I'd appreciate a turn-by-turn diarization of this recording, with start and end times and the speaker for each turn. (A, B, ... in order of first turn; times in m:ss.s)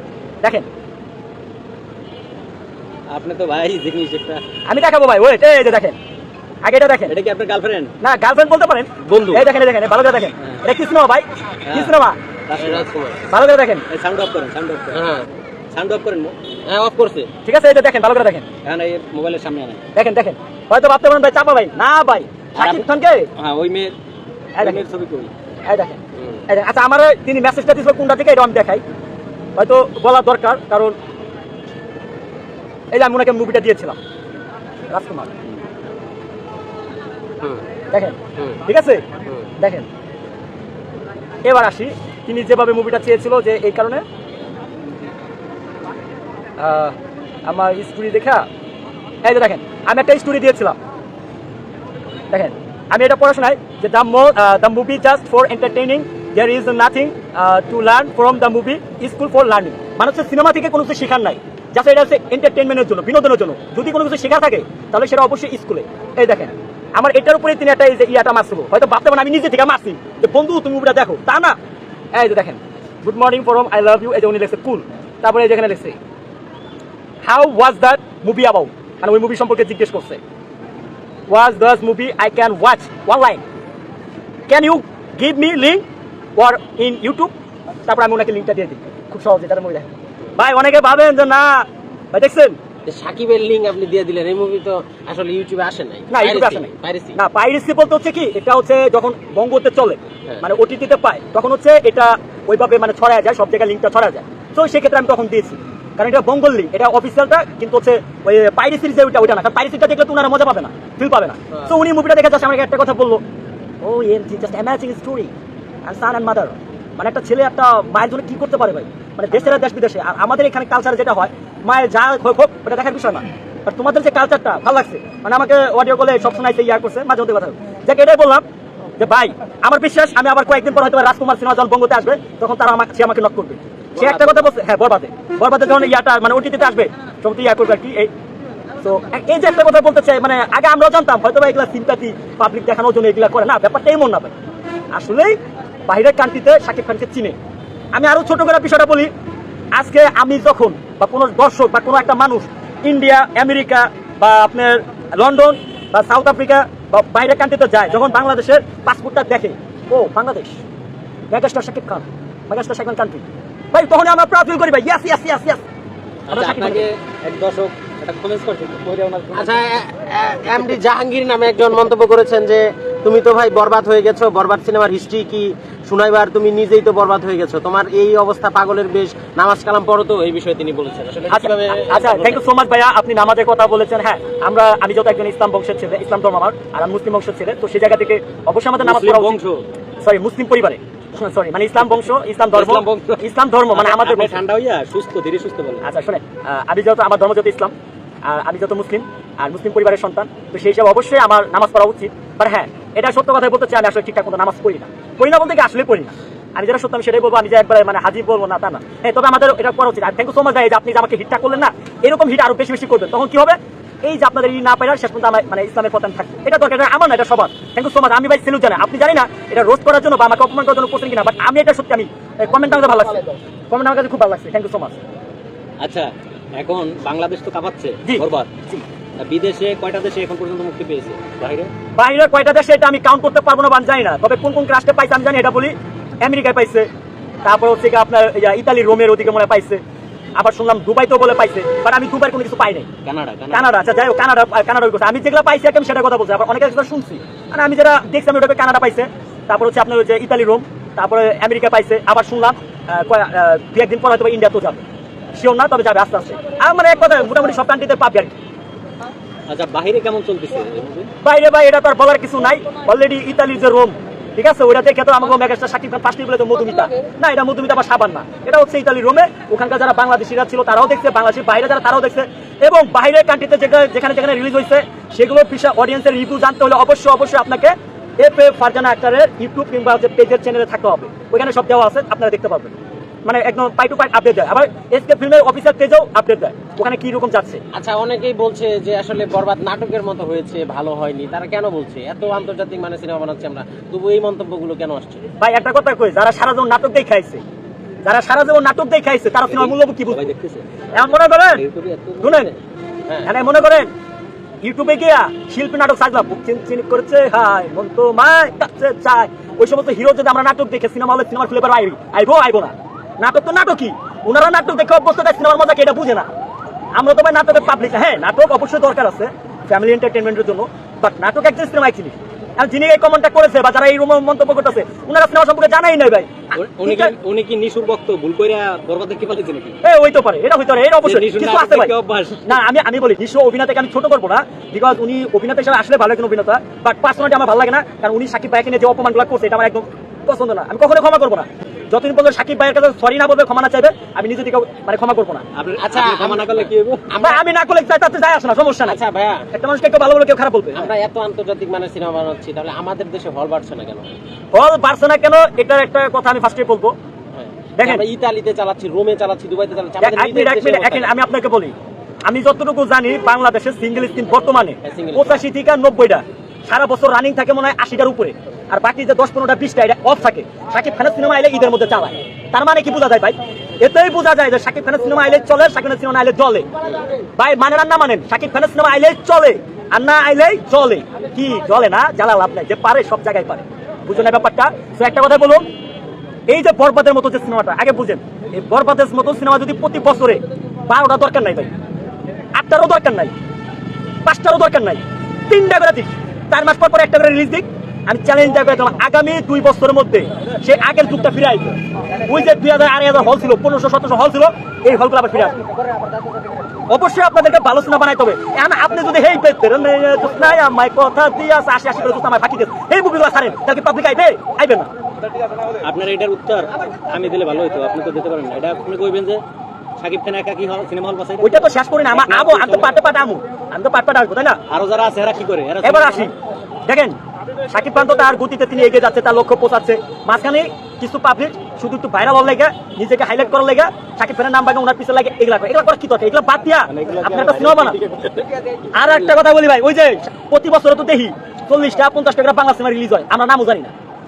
0:03.1-0:04.4 A
0:04.7-0:06.0 B
0:06.6-0:07.1 B
0:07.1-0:07.9 A
0:08.0-0:12.2 B
0:09.0-0:09.5 A
0:11.7-0:12.0 A
0:12.5-0:12.9 A
0:12.6-0:13.2 C
0:13.3-0:13.8 B
0:13.9-0:15.1 A
0:14.9-0:15.3 C
0:15.7-0:16.4 A
0:16.6-0:17.3 C
0:17.4-0:18.5 B
0:18.6-0:19.8 A
0:20.0-0:23.3 B
0:22.6-0:22.8 A
0:23.4-0:23.9 A
0:24.6-0:25.3 A
0:24.6-0:24.8 B
0:25.6-0:28.8 B
0:29.6-0:31.0 B
0:32.9-0:34.0 B
0:34.9-0:35.3 B
0:37.9-0:39.0 B
0:39.6-0:39.9 B
0:41.4-0:44.0 B
0:46.6-0:47.0 B
0:47.5-0:48.5 B
0:49.2-0:50.8 B
0:52.3-1:11.6 B
1:12.1-1:16.0 B
1:17.2-1:20.2 B
1:21.3-1:23.4 B
1:24.5-1:25.8 B
1:26.4-1:27.3 B
1:27.9-1:32.6 B
1:32.9-1:37.2 C
1:36.1-1:53.2 B
1:53.8-1:55.3 B
1:55.9-2:08.4 B
2:09.0-2:18.1 B
2:18.8-2:24.4 B
2:24.9-2:27.4 B
2:27.9-2:29.1 B
2:29.7-2:40.6 B
2:41.3-2:45.6 B
2:46.3-2:49.6 A
2:46.3-2:46.8 B
2:49.3-3:02.4 C
3:01.3-3:09.4 B
3:08.8-3:09.6 A
3:10.0-3:14.4 B
3:12.5-3:15.9 A
3:15.8-3:45.0 B
3:45.8-3:48.5 A
3:48.0-3:48.8 B
3:49.2-3:51.7 A
3:52.0-3:56.9 B
3:57.4-3:59.8 B
4:00.4-4:02.9 B
4:03.0-4:03.8 A
4:03.5-4:18.4 B
4:19.5-4:21.1 A
4:21.2-4:42.7 B
4:43.2-4:47.6 B
4:47.7-4:55.2 C
4:55.4-4:57.4 B
4:58.0-5:00.2 B
4:59.5-5:02.6 A
5:00.9-5:01.6 B
5:02.2-5:02.5 B
5:03.2-5:03.9 B
5:04.6-5:16.3 B
5:17.0-5:27.1 B
5:26.6-5:29.8 A
5:29.8-5:31.9 B
5:31.0-5:32.6 A
5:32.4-5:45.4 B
5:45.5-5:47.1 A
5:45.8-5:47.4 C
5:47.2-5:49.0 B
5:48.9-5:49.5 C
5:49.5-5:50.9 B
5:50.7-5:54.1 C
5:54.5-5:56.9 B
5:57.4-6:01.1 C
5:57.8-5:58.0 B
6:00.0-6:01.7 B
6:02.2-6:16.7 B
6:04.8-6:05.4 C
6:17.4-6:25.6 B
6:26.5-6:31.7 B
6:32.6-6:33.3 B
6:34.2-6:45.6 B
6:46.9-6:54.9 B
6:55.8-6:59.4 A
7:00.0-7:03.1 A
7:01.4-7:04.6 B
7:04.7-7:06.3 A
7:05.8-7:06.3 B
7:06.9-7:07.2 B
7:07.7-7:18.0 B
7:17.0-7:18.5 A
7:18.9-7:23.9 B